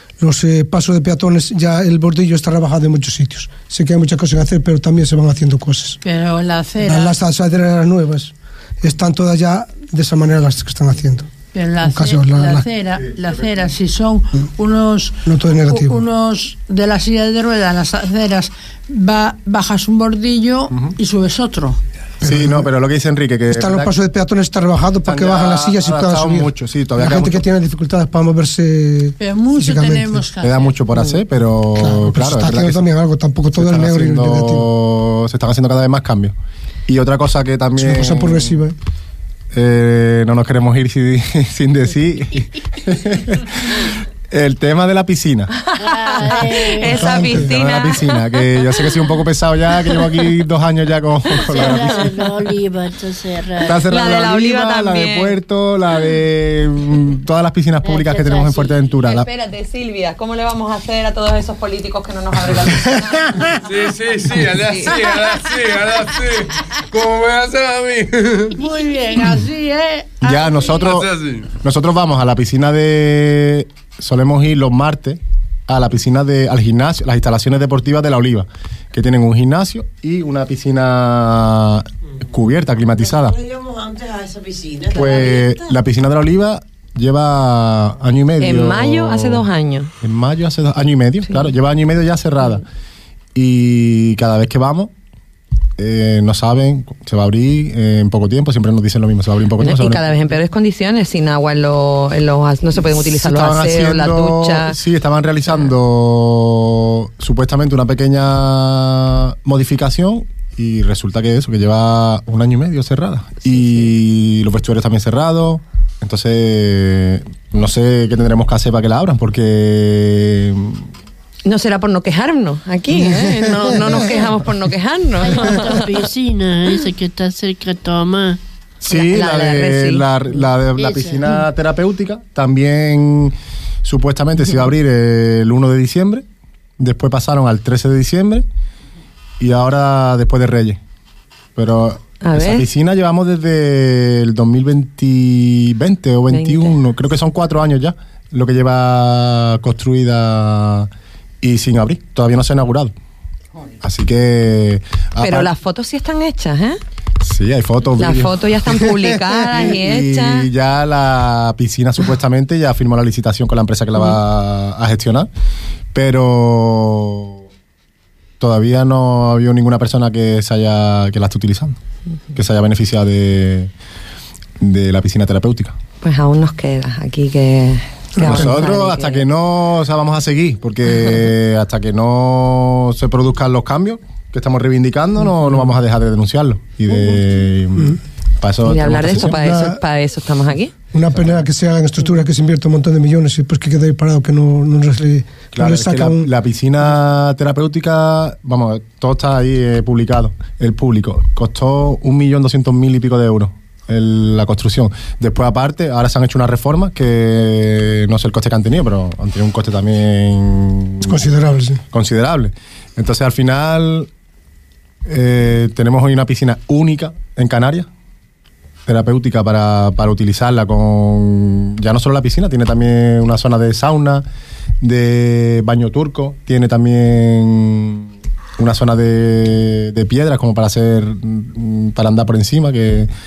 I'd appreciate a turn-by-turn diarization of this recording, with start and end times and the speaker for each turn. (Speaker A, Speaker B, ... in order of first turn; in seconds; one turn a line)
Speaker A: 0.2-6.0
Speaker B: 6.0-7.2
Speaker A: 6.8-12.7
Speaker B: 11.5-21.8
Speaker A: 15.2-16.0
Speaker A: 22.2-22.7
Speaker C: 22.2-23.9
Speaker A: 23.5-30.3
Speaker C: 25.0-27.4
Speaker B: 29.2-30.7
Speaker C: 30.4-32.8
Speaker A: 31.8-34.6
Speaker C: 33.5-36.3
Speaker C: 36.9-38.6
Speaker A: 37.8-38.7
Speaker C: 39.5-45.5
Speaker D: 45.7-48.8
Speaker E: 45.8-47.3
Speaker A: 46.9-47.5
Speaker C: 47.4-52.0
Speaker E: 51.3-53.8
Speaker D: 51.4-52.0
Speaker C: 53.6-59.3
Speaker D: 53.7-55.3
Speaker E: 57.8-58.7
Speaker D: 59.0-63.5
Speaker F: 63.5-68.6
Speaker B: 68.5-70.9
Speaker C: 70.2-83.3
Speaker F: 70.8-71.5
Speaker G: 83.0-85.7
Speaker C: 84.9-89.5
Speaker D: 88.4-89.9
Speaker C: 90.0-92.6
Speaker C: 93.3-94.9
Speaker C: 95.8-100.0
Speaker D: 99.6-104.8
Speaker C: 103.1-120.8
Speaker D: 121.5-126.0
Speaker E: 125.2-128.4
Speaker C: 128.8-136.2
Speaker D: 128.9-130.1
Speaker E: 130.7-131.4
Speaker C: 136.8-138.4
Speaker C: 139.4-140.8
Speaker C: 141.6-150.9
Speaker D: 142.2-142.6
Speaker D: 146.3-146.8
Speaker C: 151.4-152.9
Speaker C: 153.8-155.5
Speaker D: 155.2-156.8
Speaker C: 157.2-165.3
Speaker D: 158.0-160.5
Speaker C: 165.9-167.4
Speaker C: 168.4-171.8
Speaker C: 172.3-173.7
Speaker C: 174.6-175.8
Speaker D: 176.0-179.2
Speaker A: 178.2-178.6
Speaker C: 178.2-189.3
Speaker A: 186.9-187.2
Speaker D: 188.6-190.7
Speaker A: 189.1-189.8
Speaker A: 190.9-196.3
Speaker C: 195.5-211.2
Speaker A: 211.0-211.8
Speaker C: 211.9-214.1
Speaker C: 215.0-217.9
Speaker C: 218.9-224.2
Speaker C: 224.8-233.1